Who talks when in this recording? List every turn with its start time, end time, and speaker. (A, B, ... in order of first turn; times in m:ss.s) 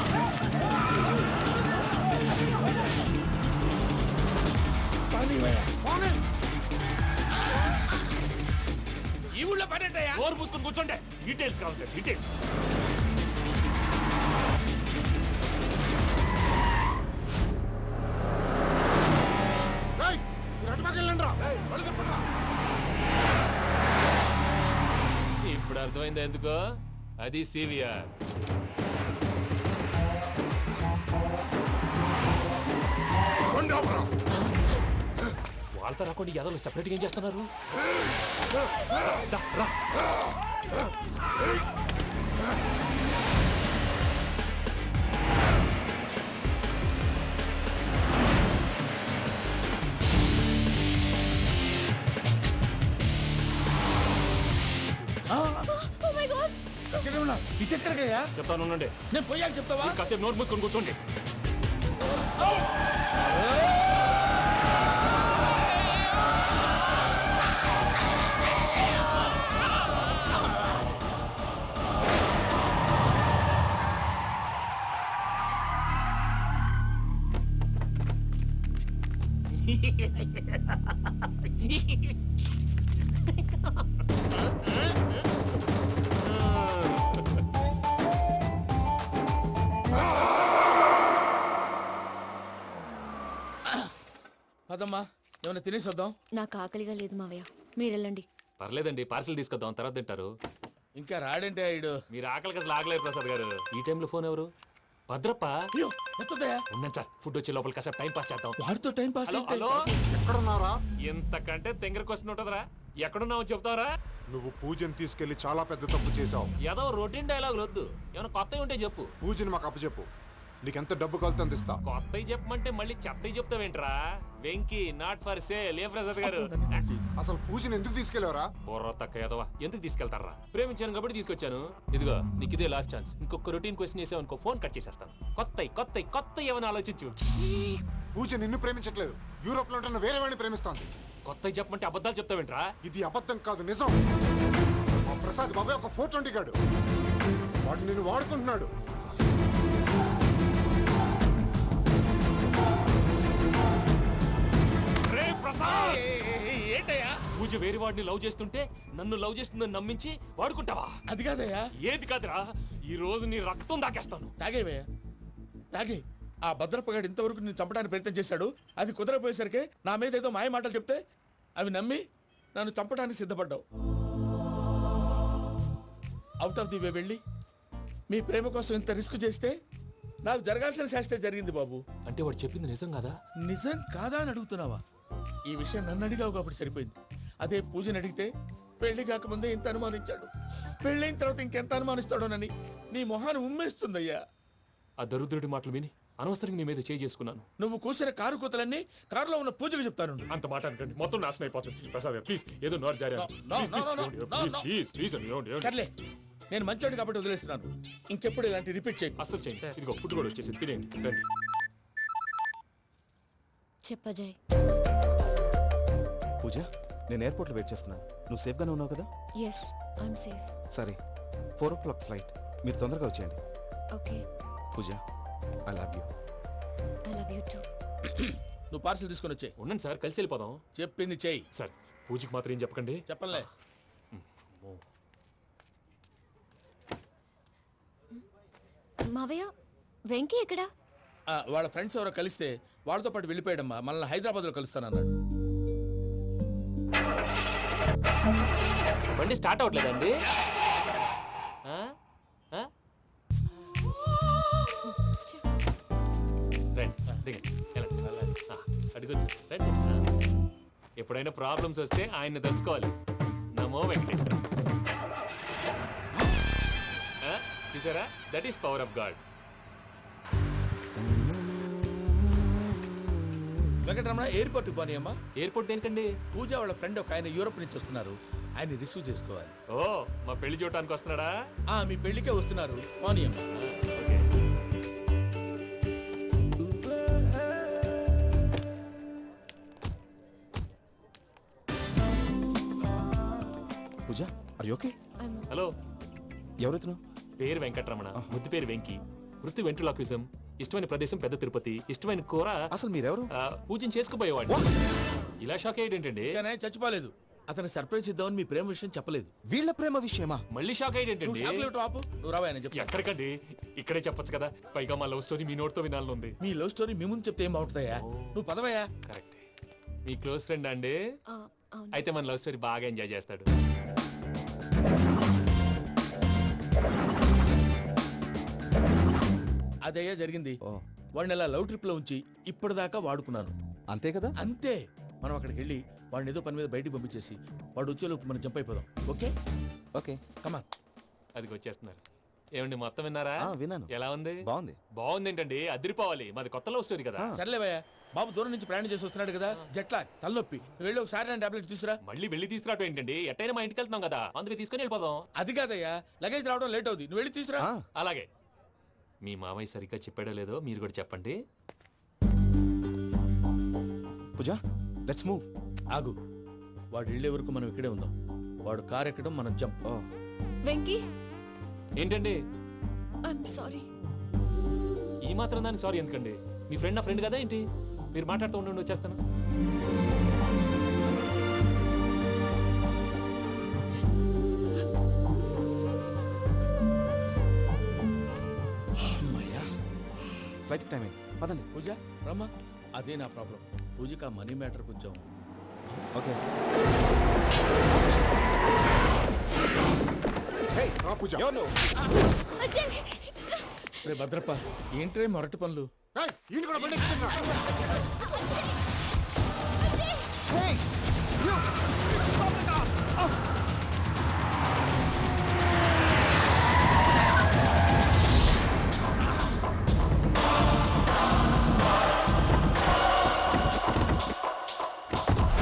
0:05.1-0:05.8 A
0:09.3-0:10.2 A
0:10.1-0:12.3 B
0:20.0-0:22.2 C
0:25.4-0:26.6 B
0:27.2-0:27.9 B
0:35.7-0:37.5 B
0:39.0-0:39.8 B
0:55.3-0:55.7 A
0:55.7-0:56.6 D
0:56.9-0:58.2 A
0:58.3-0:58.9 B
0:59.1-1:00.0 A
0:59.8-1:01.0 B
1:19.6-1:20.7 B
1:21.4-1:22.1 B
1:23.3-1:23.7 B
1:24.3-1:25.1 B
1:26.2-1:27.3 B
1:34.7-1:36.1 A
1:36.3-1:38.2 D
1:38.6-1:40.3 B
1:41.0-1:41.9 A
1:42.1-1:44.5 B
1:45.1-1:45.5 B
1:45.8-1:46.6 A
1:46.7-1:48.6 B
1:48.6-1:49.8 A
1:49.3-1:49.8 B
1:50.1-1:50.7 C
1:51.1-1:53.9 B
1:54.3-1:56.5 C
1:56.6-1:59.1 B
1:59.2-2:00.1 C
2:00.6-2:01.8 C
2:01.8-2:06.8 B
2:06.2-2:07.1 A
2:07.2-2:08.5 C
2:08.6-2:17.2 B
2:18.1-2:20.9 C
2:21.2-2:22.7 B
2:22.8-2:24.0 C
2:25.0-2:26.5 C
2:27.6-2:28.7 C
2:35.0-2:36.0 B
2:35.7-2:37.1 A
2:37.4-2:40.9 B
2:41.1-2:41.6 A
2:41.8-2:44.3 B
2:44.4-2:44.8 A
2:46.5-2:51.0 A
2:51.6-2:52.0 A
2:52.5-2:53.6 A
2:56.4-2:57.2 A
2:58.1-2:59.5 A
3:00.2-3:01.8 A
3:02.0-3:03.2 B
3:03.5-3:04.8 A
3:05.5-3:08.3 A
3:08.8-3:10.3 A
3:10.8-3:14.1 A
3:15.0-3:17.5 B
3:17.6-3:20.3 A
3:20.3-3:25.8 B
3:23.2-3:24.7 A
3:25.6-3:25.9 A
3:26.5-3:29.2 A
3:29.2-3:31.2 B
3:33.8-3:34.4 D
3:36.4-3:39.1 E
3:39.4-3:40.5 D
3:40.7-3:41.0 E
3:41.6-3:43.4 E
3:43.9-3:44.2 D
3:44.7-3:45.0 E
3:45.7-3:46.1 E
3:47.1-3:47.6 D
3:48.1-3:49.5 A
3:49.6-3:50.6 B
3:50.8-3:51.4 A
3:51.5-3:53.4 B
3:53.1-3:53.4 A
3:54.1-3:54.8 B
3:59.1-3:59.5 D
4:00.1-4:00.7 D
4:01.4-4:05.1 A
4:09.1-4:10.1 B
4:14.6-4:15.4 D
4:16.8-4:20.0 B
4:21.0-4:22.9 B
4:23.6-4:24.4 B
4:27.2-4:29.2 B
4:33.8-4:35.1 A
4:35.4-4:36.1 B
4:36.3-4:39.5 A
4:39.7-4:41.3 B
4:41.7-4:43.4 A
4:43.5-4:44.2 B
4:54.1-4:54.9 E
4:55.2-4:55.5 D
4:56.6-4:57.0 E
4:57.4-5:02.6 B
5:02.7-5:03.3 E
5:03.4-5:04.6 B
5:05.4-5:06.4 B
5:06.3-5:09.3 A
5:09.5-5:10.4 E
5:10.5-5:11.5 B
5:11.2-5:13.0 A
5:12.8-5:16.4 B
5:16.4-5:18.9 A
5:18.0-5:18.4 B
5:19.0-5:19.4 B
5:20.0-5:21.0 B
5:21.3-5:22.0 D
5:21.9-5:23.5 B
5:29.9-5:30.6 A
5:31.2-5:33.5 A
5:33.9-5:34.4 E
5:34.4-5:39.3 A
5:39.9-5:40.2 E
5:41.4-5:42.0 B
5:42.6-5:43.4 B
5:43.4-5:44.8 E
5:43.9-5:44.4 B
5:45.0-5:47.3 B
5:47.4-5:52.0 A
5:52.0-5:55.2 B
5:55.4-5:57.7 A
5:58.0-5:58.3 B
5:59.2-6:01.4 B
6:04.4-6:05.4 E
6:06.9-6:08.1 A
6:08.6-6:09.8 A
6:10.7-6:11.0 D
6:12.0-6:12.4 B
6:13.3-6:13.8 D
6:15.3-6:17.6 B
6:18.1-6:19.2 B
6:29.2-6:29.6 A
6:30.7-6:31.7 E
6:31.7-6:35.2 A
6:36.1-6:36.4 E
6:40.8-6:41.7 E
6:40.8-6:41.5 C
6:42.4-6:44.2 D
6:44.0-6:45.9 A
6:46.1-6:47.5 C
6:48.0-6:48.7 D
6:49.8-6:50.4 D